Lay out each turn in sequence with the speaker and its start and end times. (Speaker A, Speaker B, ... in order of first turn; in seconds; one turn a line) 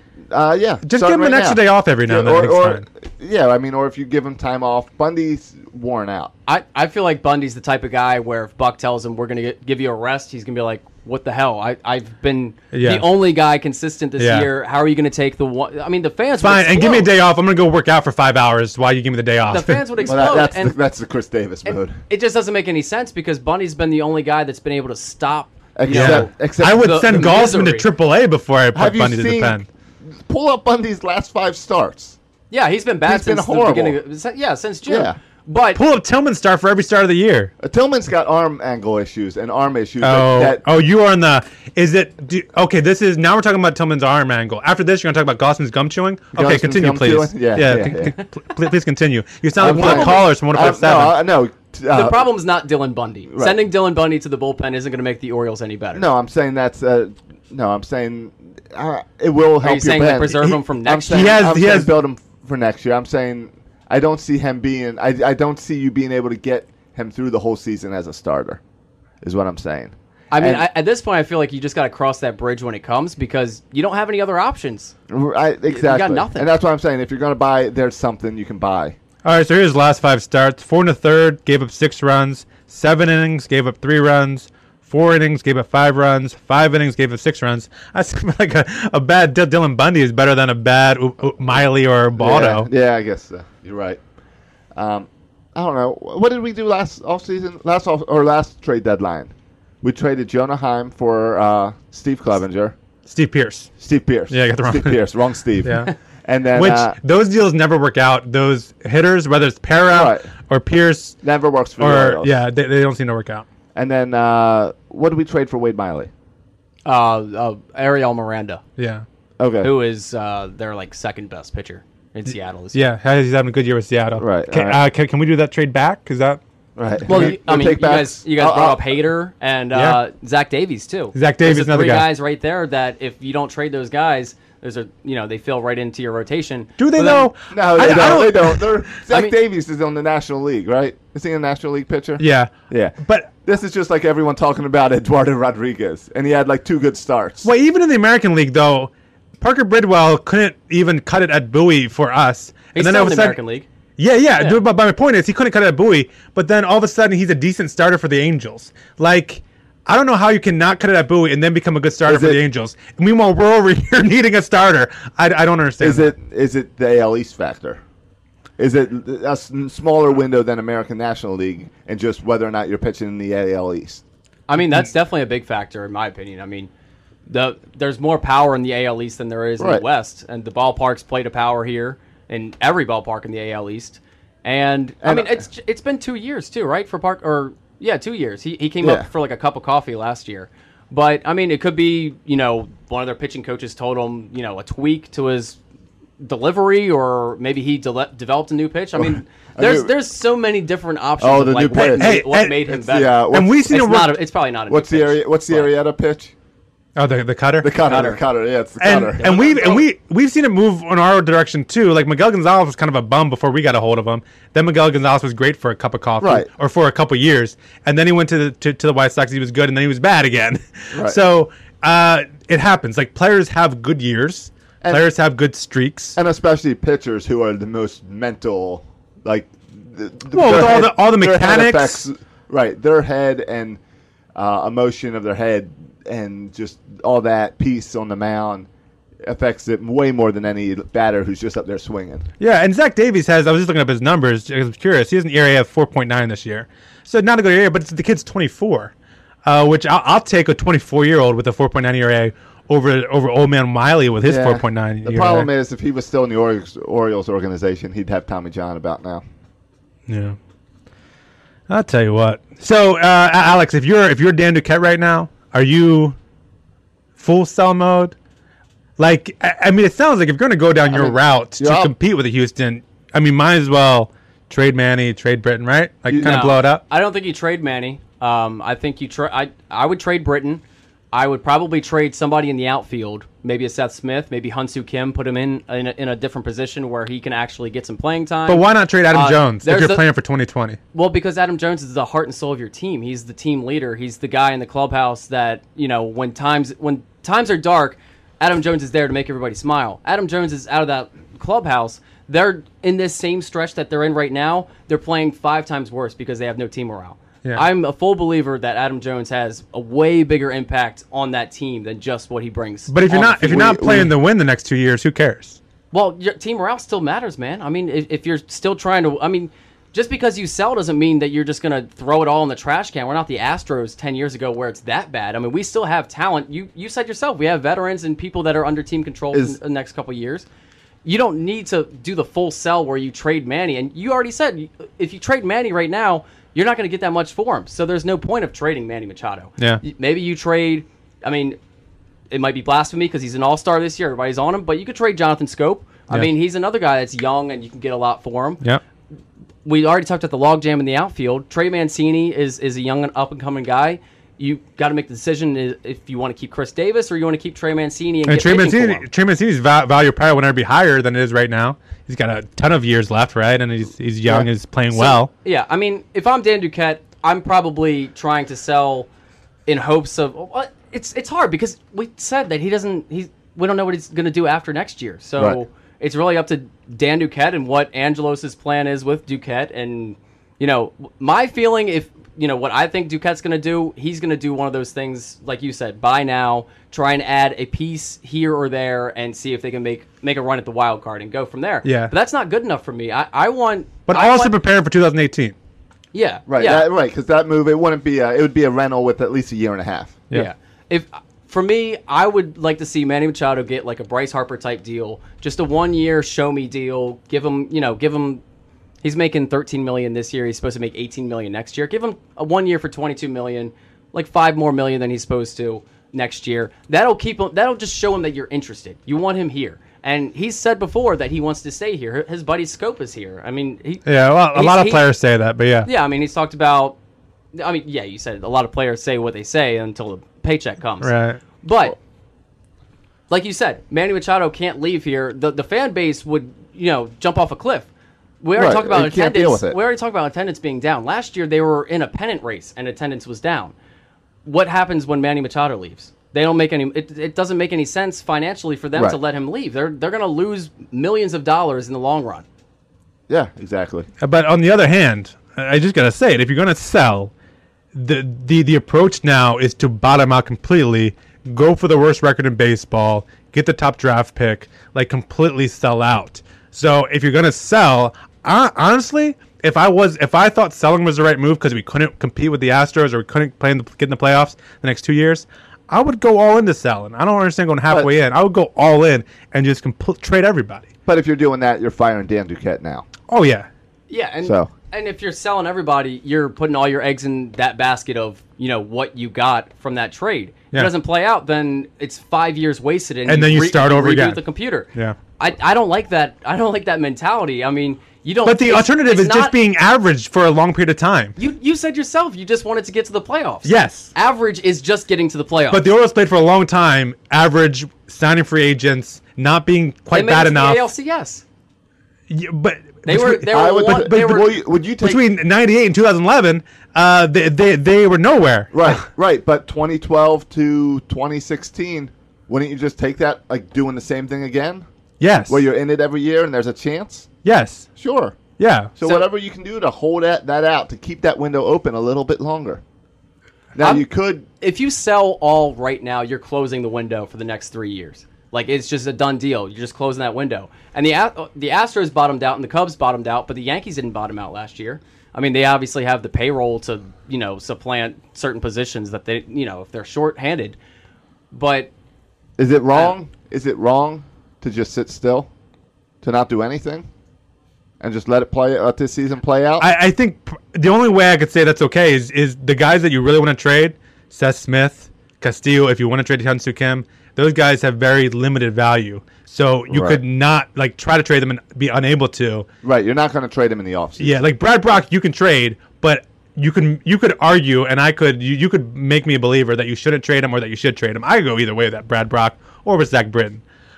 Speaker A: 0.3-6.3
Speaker B: 0.9-2.8
Speaker C: 6.5-17.1
Speaker B: 12.7-13.1
Speaker B: 14.2-14.5
Speaker B: 16.4-19.9
Speaker C: 19.5-20.8
Speaker A: 20.0-22.0
Speaker C: 21.7-27.9
Speaker A: 25.8-27.3
Speaker B: 25.9-29.7
Speaker A: 28.7-32.2
Speaker C: 32.5-35.8
Speaker A: 33.1-34.0
Speaker A: 34.9-35.2
Speaker B: 35.8-37.5
Speaker A: 37.6-40.6
Speaker B: 40.0-51.2
Speaker A: 46.3-48.1
Speaker A: 49.6-52.3
Speaker C: 49.6-50.7
Speaker C: 51.9-56.1
Speaker A: 53.3-53.6
Speaker A: 55.9-68.6
Speaker C: 59.6-61.4
Speaker B: 61.1-61.9
Speaker A: 69.2-70.7
Speaker C: 70.3-74.9
Speaker A: 75.1-79.0
Speaker C: 75.7-76.5
Speaker B: 79.2-92.7
Speaker A: 92.2-94.0
Speaker A: 94.8-102.8
Speaker B: 103.1-103.7
Speaker A: 103.8-107.0
Speaker B: 104.3-105.0
Speaker B: 105.6-105.9
Speaker B: 106.5-111.2
Speaker A: 109.9-110.3
Speaker A: 111.2-112.4
Speaker B: 111.8-113.5
Speaker A: 113.8-116.1
Speaker C: 116.8-118.6
Speaker B: 118.8-119.0
Speaker A: 119.4-119.7
Speaker C: 119.6-122.8
Speaker B: 122.7-126.4
Speaker A: 124.2-124.8
Speaker A: 126.8-128.9
Speaker C: 127.1-137.3
Speaker B: 129.7-130.0
Speaker B: 131.1-132.1
Speaker B: 136.8-138.8
Speaker A: 137.5-147.5
Speaker B: 142.2-142.5
Speaker B: 143.0-143.3
Speaker B: 147.4-153.4
Speaker C: 152.7-153.7
Speaker B: 154.0-166.1
Speaker A: 162.1-162.4
Speaker A: 165.8-167.8
Speaker A: 168.6-174.0
Speaker C: 174.5-176.7
Speaker C: 177.3-195.6
Speaker A: 179.6-179.8
Speaker A: 185.0-185.4
Speaker A: 188.8-189.1
Speaker C: 196.2-205.7
Speaker A: 199.0-199.9
Speaker A: 201.2-203.7
Speaker B: 201.8-202.7
Speaker B: 203.3-204.2
Speaker A: 204.7-206.3
Speaker B: 207.0-207.7
Speaker A: 207.6-209.8
Speaker C: 207.8-208.2
Speaker B: 208.8-226.2
Speaker C: 209.2-209.8
Speaker A: 216.2-216.5
Speaker A: 220.9-221.2
Speaker A: 226.2-233.8
Speaker B: 230.3-232.0
Speaker A: 234.3-238.7
Speaker A: 239.2-242.3
Speaker B: 242.4-248.9
Speaker B: 249.4-255.5
Speaker A: 254.2-259.2
Speaker B: 260.1-260.4
Speaker B: 261.7-266.2
Speaker B: 267.2-268.1
Speaker B: 269.0-276.8
Speaker A: 270.9-271.9
Speaker A: 276.1-276.4
Speaker C: 276.1-290.0
Speaker B: 288.5-290.8
Speaker C: 290.9-313.2
Speaker B: 312.9-315.6
Speaker A: 313.1-314.1
Speaker C: 315.9-330.5
Speaker A: 329.3-329.6
Speaker C: 331.0-341.6
Speaker C: 342.3-348.6
Speaker C: 349.6-359.1
Speaker B: 358.3-365.3
Speaker C: 364.9-369.1
Speaker C: 369.7-394.5
Speaker B: 391.8-392.1
Speaker B: 394.1-395.6
Speaker C: 396.1-396.9
Speaker A: 396.5-400.2
Speaker C: 400.3-408.4
Speaker C: 409.0-425.1
Speaker B: 424.1-425.9
Speaker C: 425.9-427.0
Speaker C: 427.5-432.0
Speaker B: 431.0-431.4
Speaker C: 433.3-437.9
Speaker C: 438.4-443.8
Speaker A: 438.6-439.8
Speaker C: 444.4-452.4
Speaker A: 453.3-454.1
Speaker B: 454.2-457.3
Speaker B: 457.9-480.9
Speaker A: 481.1-483.1
Speaker B: 483.3-483.7
Speaker C: 484.1-499.6
Speaker A: 484.4-484.7
Speaker B: 493.3-494.4
Speaker B: 498.4-501.4
Speaker C: 501.4-505.9
Speaker B: 503.6-504.1
Speaker B: 505.7-510.9
Speaker C: 510.1-511.4
Speaker B: 512.3-519.0
Speaker C: 513.1-514.5
Speaker A: 513.5-515.2
Speaker A: 518.7-524.9
Speaker B: 525.2-525.7
Speaker A: 525.5-527.3
Speaker B: 527.4-527.9
Speaker A: 528.0-528.4
Speaker B: 528.6-528.9
Speaker A: 529.0-532.8
Speaker A: 533.8-534.5
Speaker C: 533.8-534.1
Speaker C: 534.6-550.8
Speaker C: 551.5-551.9
Speaker A: 552.6-555.5
Speaker A: 556.2-557.1
Speaker A: 558.0-559.9
Speaker B: 559.8-572.7
Speaker A: 569.9-570.2
Speaker A: 572.8-574.4
Speaker B: 574.2-583.6